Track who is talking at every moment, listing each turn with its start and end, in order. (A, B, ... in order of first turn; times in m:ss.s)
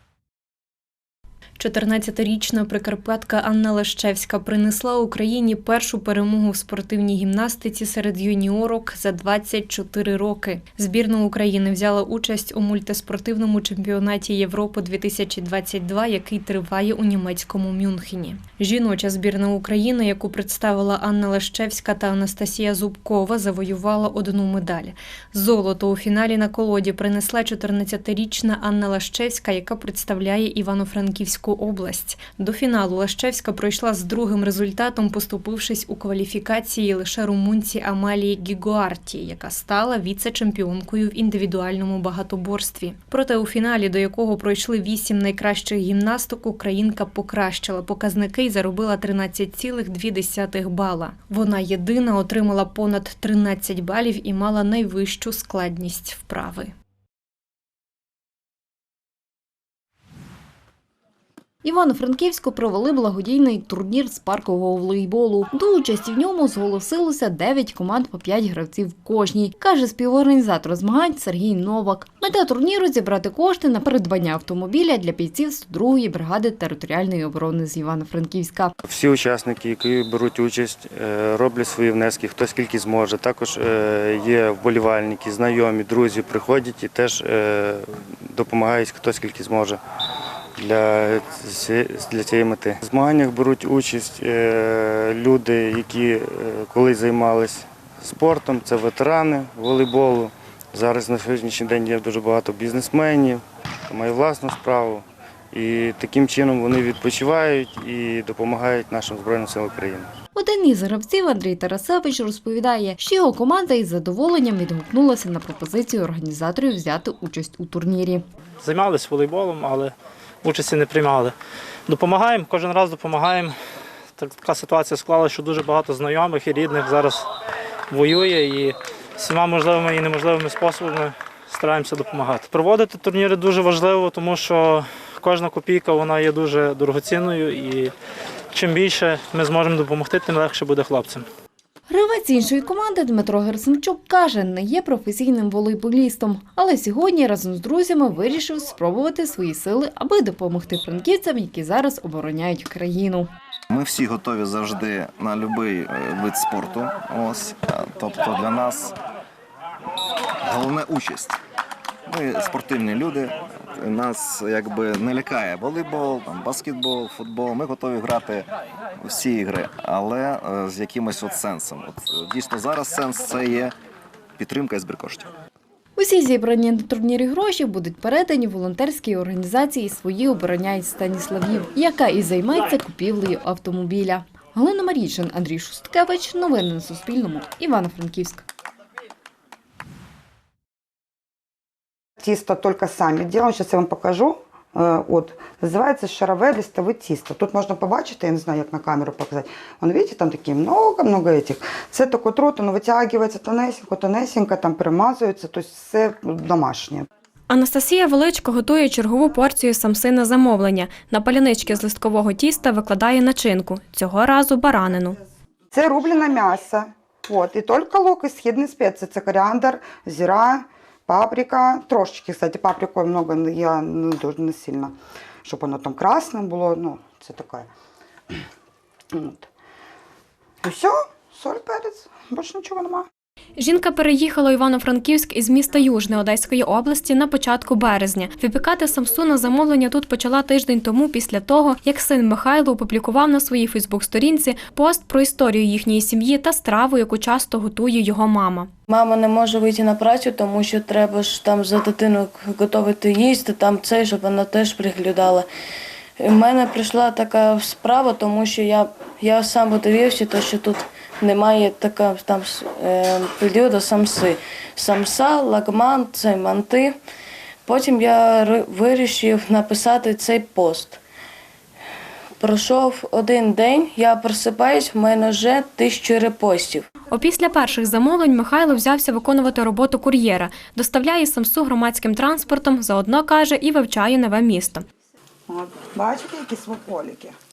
0:01.6-0:56.7 A
1:01.6-1:18.7 B
1:18.8-1:29.8 C
1:30.6-1:50.1 C
1:50.3-1:58.2 B
1:58.6-2:01.3 D
2:01.9-2:03.6 D
2:04.2-2:07.2 D
2:07.9-2:17.9 D
2:18.5-2:21.2 D
2:21.9-2:33.3 B
2:33.7-2:38.9 E
2:40.4-2:41.4 E
2:42.1-2:48.4 E
2:49.0-2:53.7 E
2:54.4-2:55.3 E
2:56.0-3:08.4 B
3:12.2-3:27.1 F
3:27.5-3:35.2 G
3:35.7-3:47.7 F
3:49.1-3:49.5 F
3:50.6-3:53.1 F
3:53.6-4:08.7 G
4:08.9-4:15.5 H
4:16.2-4:27.0 H
4:27.6-4:31.0 H
4:32.4-4:36.8 H
4:37.1-4:44.8 G
4:45.5-4:47.3 F